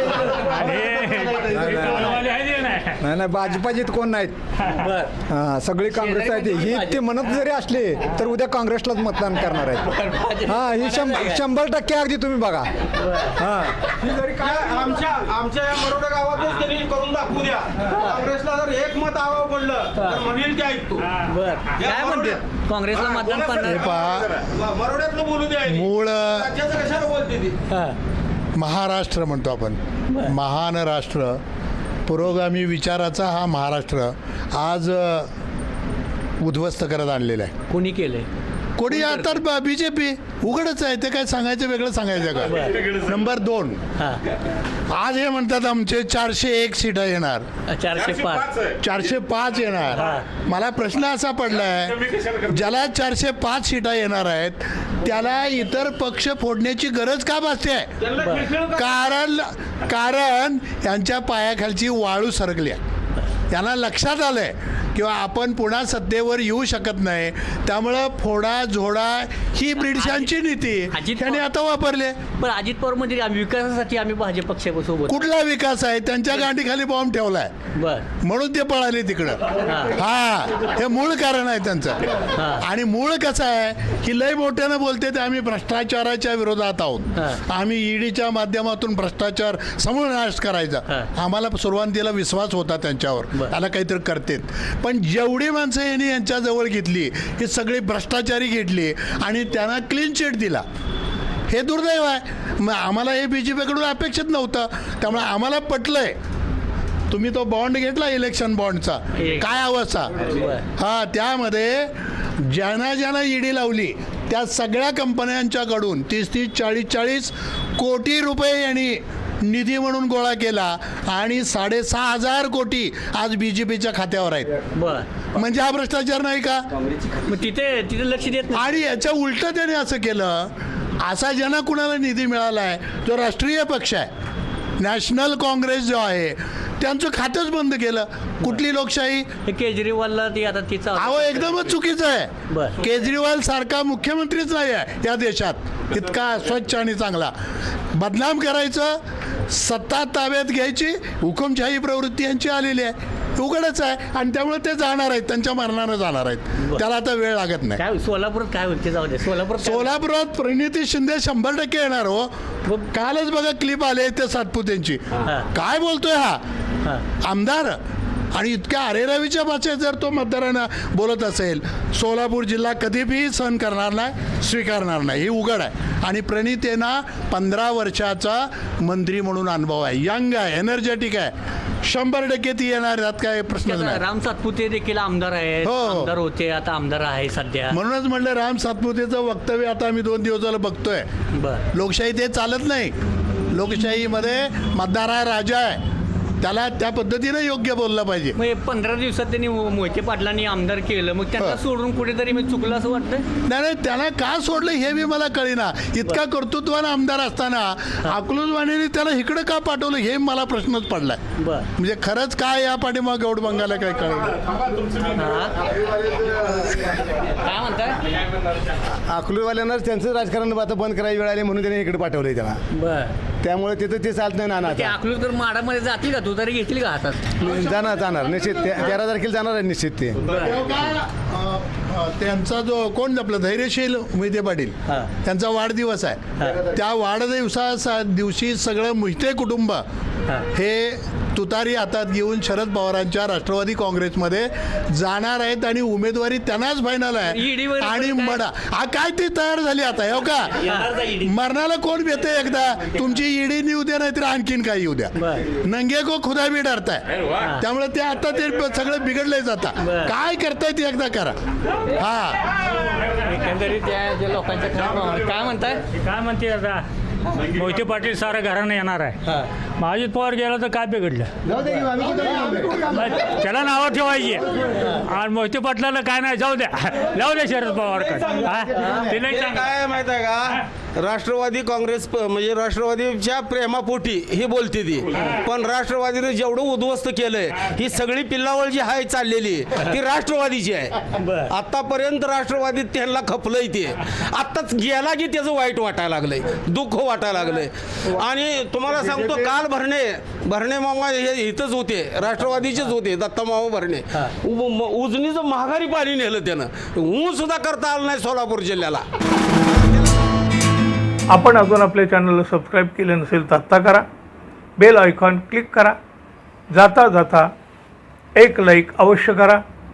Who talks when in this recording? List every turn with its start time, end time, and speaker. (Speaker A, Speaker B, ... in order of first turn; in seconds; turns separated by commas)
Speaker A: 0.3-3.0, Speaker B: 1.5-2.1, Speaker B: 3.0-4.3, Speaker C: 4.7-5.1, Speaker B: 5.3-9.8, Speaker C: 5.9-7.4, Speaker C: 9.7-11.5, Speaker B: 10.5-12.7, Speaker C: 13.0-13.4, Speaker B: 13.4-14.7, Speaker D: 14.4-21.1, Speaker C: 17.9-18.2, Speaker C: 19.9-20.2, Speaker C: 21.2-23.9, Speaker D: 21.8-22.3, Speaker D: 22.9-23.5, Speaker E: 23.6-24.4, Speaker D: 24.4-25.9, Speaker E: 25.6-26.6, Speaker D: 26.4-27.5, Speaker C: 27.7-27.9, Speaker E: 28.6-31.4, Speaker C: 30.1-30.3, Speaker E: 32.1-35.3, Speaker E: 36.4-37.5, Speaker C: 37.7-38.3, Speaker E: 38.8-43.8, Speaker C: 42.5-42.8, Speaker E: 44.9-47.5, Speaker C: 47.7-48.5, Speaker E: 48.8-57.9, Speaker C: 50.0-50.2, Speaker D: 58.1-58.9, Speaker C: 58.2-58.5, Speaker E: 58.6-62.8, Speaker E: 63.5-72.2, Speaker C: 69.8-70.3, Speaker C: 70.9-71.4, Speaker C: 72.4-75.2, Speaker E: 75.1-77.5, Speaker C: 77.8-78.0, Speaker E: 78.2-100.6, Speaker C: 79.7-79.9, Speaker C: 82.3-82.6, Speaker E: 101.5-106.1, Speaker E: 107.1-110.1, Speaker C: 109.2-109.5, Speaker C: 110.3-110.6, Speaker E: 110.8-111.9, Speaker E: 112.5-124.5, Speaker C: 124.8-125.4, Speaker E: 125.3-126.6, Speaker C: 127.2-128.8, Speaker E: 128.5-134.1, Speaker E: 134.8-139.3, Speaker C: 139.4-141.7, Speaker E: 141.0-147.3, Speaker C: 142.5-142.7, Speaker E: 147.9-149.0, Speaker E: 149.5-157.8, Speaker C: 157.8-159.9, Speaker E: 159.6-162.3, Speaker E: 162.9-166.4, Speaker E: 167.2-167.8, Speaker E: 168.3-181.3, Speaker E: 181.8-184.0, Speaker C: 183.6-187.8, Speaker E: 185.6-186.1, Speaker E: 187.7-191.1, Speaker C: 191.3-191.6, Speaker E: 191.7-192.9, Speaker E: 193.5-195.8, Speaker E: 196.4-198.3, Speaker C: 198.3-203.2, Speaker E: 203.4-211.2, Speaker C: 211.4-211.7, Speaker E: 211.8-214.4, Speaker C: 215.2-215.5, Speaker F: 215.9-216.6, Speaker C: 217.4-218.0, Speaker F: 219.0-222.6, Speaker C: 222.7-223.1, Speaker F: 223.4-224.9, Speaker C: 224.6-227.4, Speaker E: 227.4-227.9, Speaker F: 227.4-230.2, Speaker E: 228.6-228.9, Speaker C: 230.2-230.6, Speaker E: 230.3-239.8, Speaker E: 240.5-261.4, Speaker C: 247.2-248.4, Speaker C: 255.2-255.4, Speaker C: 259.8-260.1, Speaker E: 262.0-262.4, Speaker C: 263.2-265.8, Speaker A: 266.0-266.9, Speaker A: 267.5-269.2, Speaker A: 269.8-271.3, Speaker F: 271.5-272.7, Speaker A: 272.2-279.7, Speaker D: 277.7-309.0, Speaker C: 278.7-279.1, Speaker C: 291.2-291.5, Speaker F: 299.0-299.5, Speaker G: 311.3-314.1, Speaker G: 314.8-316.0, Speaker G: 316.7-317.5, Speaker G: 318.3-319.6